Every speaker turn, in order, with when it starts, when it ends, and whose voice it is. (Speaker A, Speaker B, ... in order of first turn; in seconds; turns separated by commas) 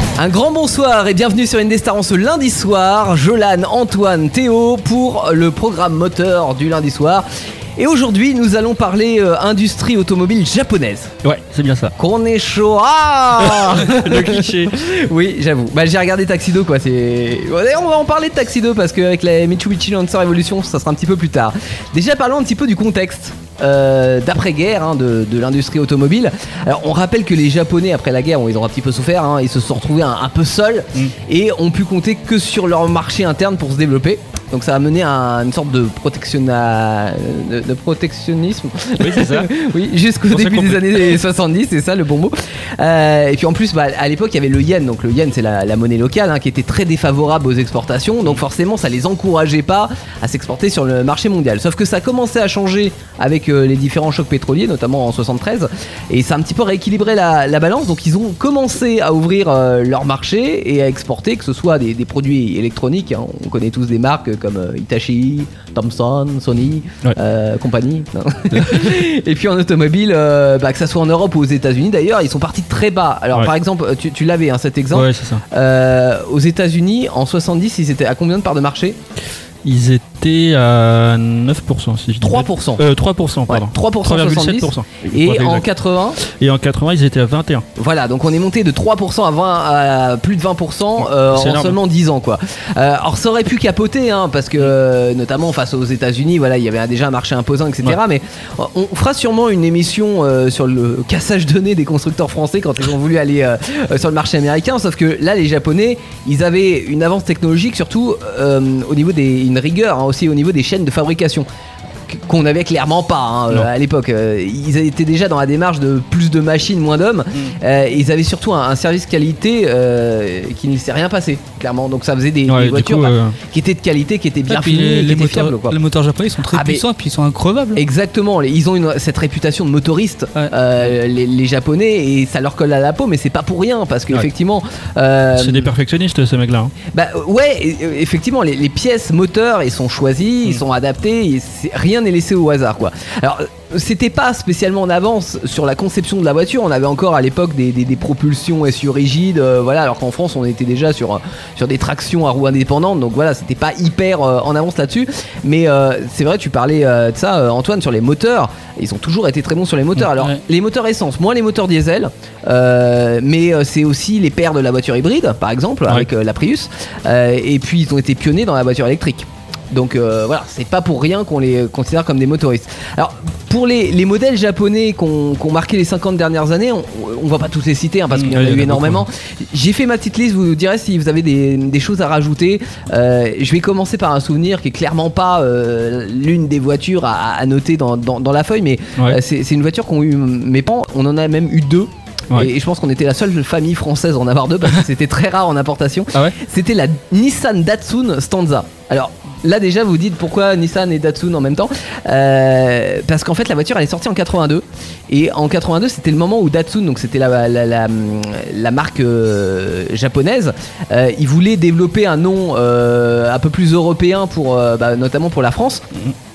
Speaker A: 0.2-7.3, Speaker A: 7.8-11.1, Speaker B: 11.2-11.9, Speaker A: 12.0-79.0, Speaker B: 13.4-14.8, Speaker B: 39.0-39.5, Speaker B: 40.3-41.2, Speaker B: 68.5-68.9, Speaker B: 74.9-75.4, Speaker B: 79.6-85.7, Speaker A: 82.2-82.8, Speaker A: 83.5-86.2, Speaker B: 86.2-87.7, Speaker A: 87.8-111.5, Speaker B: 91.0-91.8, Speaker A: 112.1-125.8, Speaker B: 122.5-123.4, Speaker C: 124.5-127.8, Speaker A: 126.5-126.8, Speaker A: 127.8-135.7, Speaker B: 135.3-136.7, Speaker A: 136.9-215.9, Speaker B: 178.1-179.1